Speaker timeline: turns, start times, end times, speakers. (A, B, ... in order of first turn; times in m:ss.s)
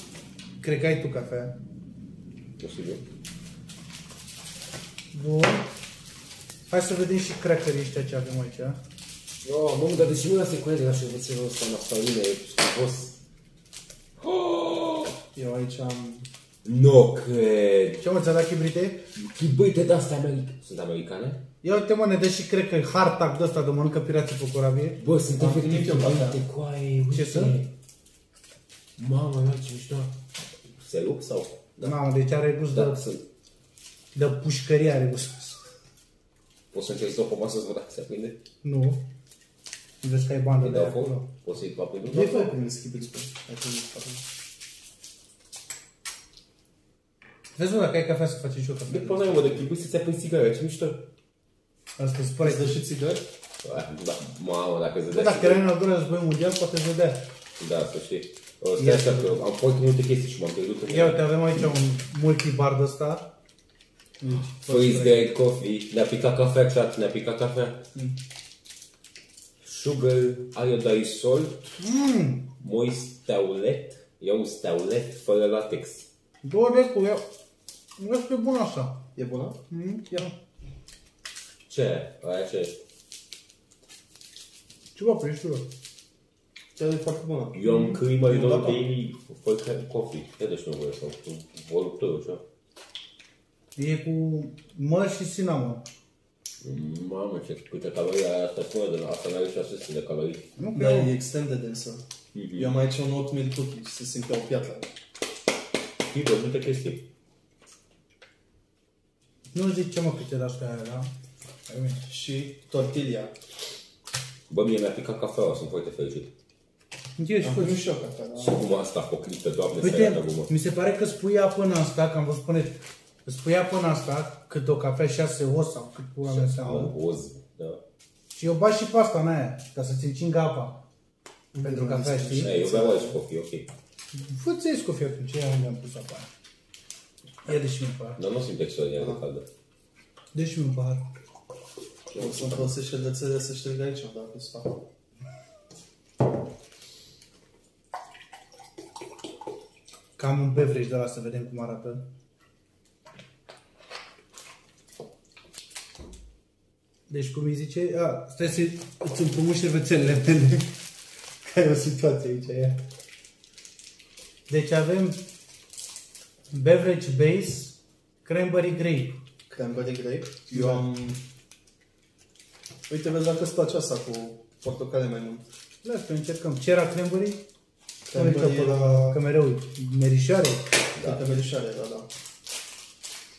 0:00.6-0:01.5 A
0:02.6-0:03.0 B
0:05.1-0:05.7 A
0:06.7-0:08.8 A
0:09.4-0:13.2 B
0:14.2-0:15.2 B
0:15.4-0:16.3 C
0:16.6-0:18.0 B
0:18.0-0:19.0 A
0:19.2-0:21.4 B
0:21.6-0:25.0 A
0:25.0-0:27.7 B
0:25.4-0:26.4 C
0:27.1-0:27.6 A
0:29.0-0:30.1 B
0:30.8-0:32.0 B
0:31.8-0:33.0 A
0:32.7-0:33.2 B
0:34.2-0:35.7 A
0:36.7-0:38.4 B
0:38.6-0:39.0 A
0:40.0-0:41.3 A
0:40.6-0:42.5 B
0:42.1-0:44.2 C
0:47.6-0:49.6 A
0:48.9-0:51.0 B
0:52.0-0:52.7 A
0:52.4-0:53.2 C
0:53.6-0:55.6 B
0:55.1-0:57.2 A
0:57.6-1:01.2 B
0:58.8-0:59.3 A
1:00.9-1:03.3 A
1:04.2-1:05.2 A
1:04.6-1:07.8 B
1:09.6-1:11.8 B
1:11.8-1:12.5 A
1:12.6-1:16.1 B
1:16.4-1:17.2 A
1:18.0-1:19.0 A
1:19.2-1:19.6 C
1:19.7-1:20.3 A
1:21.7-1:22.8 B
1:25.0-1:25.7 A
1:26.8-1:28.8 C
1:27.6-1:32.4 B
1:33.8-1:35.8 A
1:36.6-1:40.5 B
1:40.6-1:41.1 A
1:40.8-1:44.9 C
1:42.3-1:42.7 B
1:46.1-1:47.0 B
1:49.5-1:51.1 A
1:51.7-1:52.0 A
1:52.1-1:53.4 C
1:54.5-1:56.3 B
1:57.2-1:57.8 A
1:57.4-1:58.6 C
1:58.4-2:00.5 B
1:59.8-2:07.0 A
2:06.3-2:07.8 B
2:08.3-2:10.8 A
2:11.5-2:13.2 C
2:11.6-2:12.6 A
2:12.4-2:13.7 B
2:14.1-2:16.3 A
2:17.4-2:18.2 A
2:18.2-2:19.4 B
2:19.0-2:19.2 C
2:20.3-2:21.0 A
2:22.1-2:22.6 B
2:22.2-2:24.8 C
2:30.2-2:32.0 A
2:37.1-2:40.7 A
2:41.5-2:42.8 A
2:44.5-2:45.2 A
2:46.5-2:49.2 A
2:49.5-2:51.2 C
2:50.5-2:50.8 A
2:52.9-2:55.4 C
2:55.8-2:57.4 A
2:58.1-2:59.2 C
2:58.1-3:00.7 A
3:01.0-3:02.1 C